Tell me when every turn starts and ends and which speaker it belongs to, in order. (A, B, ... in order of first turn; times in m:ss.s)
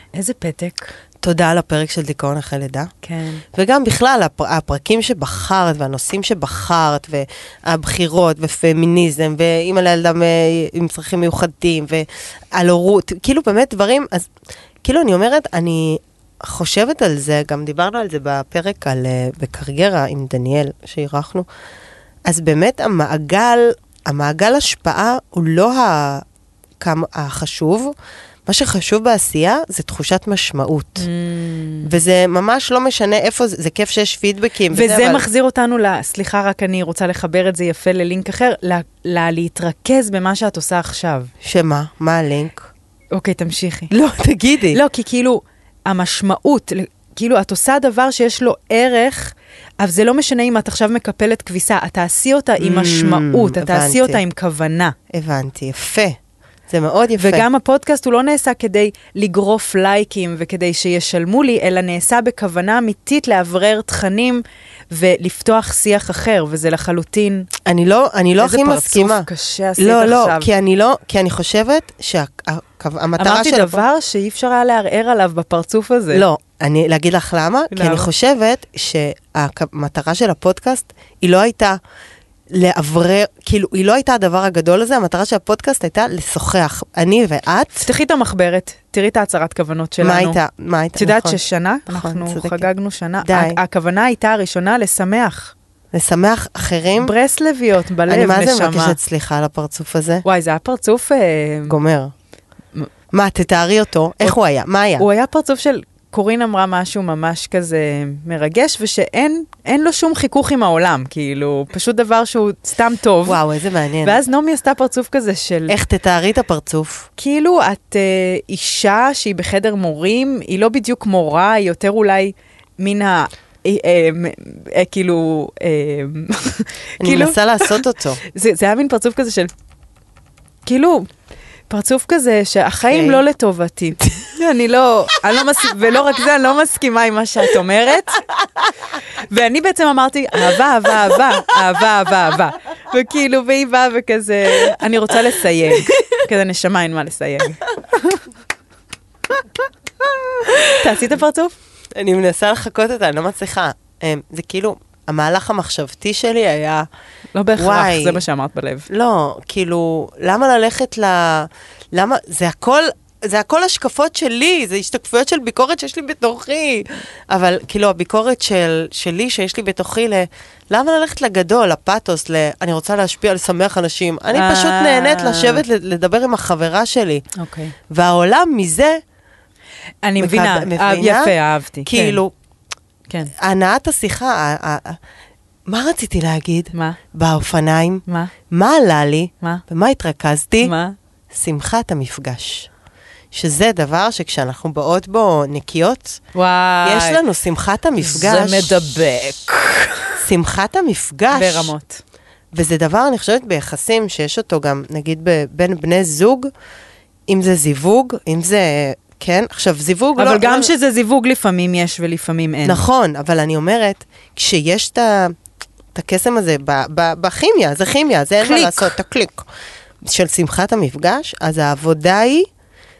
0:00.1-0:00.9 A
0:01.2-0:02.9 B
0:03.0-0:03.4 A
0:03.5-0:14.3 B
0:14.8-0:21.5 B
0:22.2-0:26.2 B
0:26.8-0:27.9 B
0:28.5-0:31.1 B
0:31.0-0:31.9 A
0:31.8-0:35.2 B
0:34.7-0:41.3 A
0:41.4-0:42.6 B
0:43.1-0:43.9 A
0:43.9-0:44.8 B
0:44.7-0:54.9 A
0:52.6-0:54.2 B
0:55.1-0:56.2 B
0:56.7-0:57.4 B
0:57.2-1:07.5 A
1:07.6-1:09.3 B
1:08.4-1:10.5 A
1:09.8-1:13.8 B
1:13.2-1:16.2 A
1:16.1-1:21.8 B
1:17.7-1:18.1 A
1:22.5-1:27.9 B
1:27.8-1:30.4 A
1:30.0-1:32.6 B
1:31.0-1:35.5 A
1:33.2-1:33.6 B
1:35.9-1:37.1 B
1:37.0-1:39.0 A
1:38.1-1:40.2 B
1:40.2-1:41.8 A
1:41.7-1:42.1 B
1:43.1-1:45.0 B
1:45.0-1:53.4 A
1:53.2-1:54.2 B
1:54.0-1:55.7 A
1:55.7-1:57.1 B
1:57.2-2:09.5 A
2:07.0-2:08.2 B
2:10.6-2:11.1 A
2:11.7-2:18.2 A
2:12.9-2:13.2 B
2:19.2-2:28.2 A
2:30.4-2:30.7 B
2:30.7-2:31.5 A
2:31.9-2:36.9 B
2:37.3-2:38.9 A
2:37.6-2:38.2 B
2:38.9-2:57.2 B
2:54.3-2:55.6 A
2:57.4-2:57.7 A
2:57.9-2:59.0 B
3:00.0-3:02.2 A
3:00.2-3:01.3 B
3:01.8-3:02.3 B
3:03.3-3:05.0 B
3:05.7-3:10.7 B
3:06.7-3:07.0 A
3:08.1-3:08.3 A
3:10.6-3:11.0 A
3:11.3-3:12.7 B
3:13.3-3:16.2 B
3:16.3-3:17.2 A
3:16.8-3:18.8 B
3:18.0-3:20.2 A
3:20.2-3:21.7 B
3:21.3-3:22.0 A
3:22.5-3:26.5 B
3:27.3-3:30.7 B
3:30.2-3:32.8 A
3:32.6-3:35.4 B
3:35.9-3:39.4 B
3:38.4-3:38.9 A
3:40.0-3:42.5 B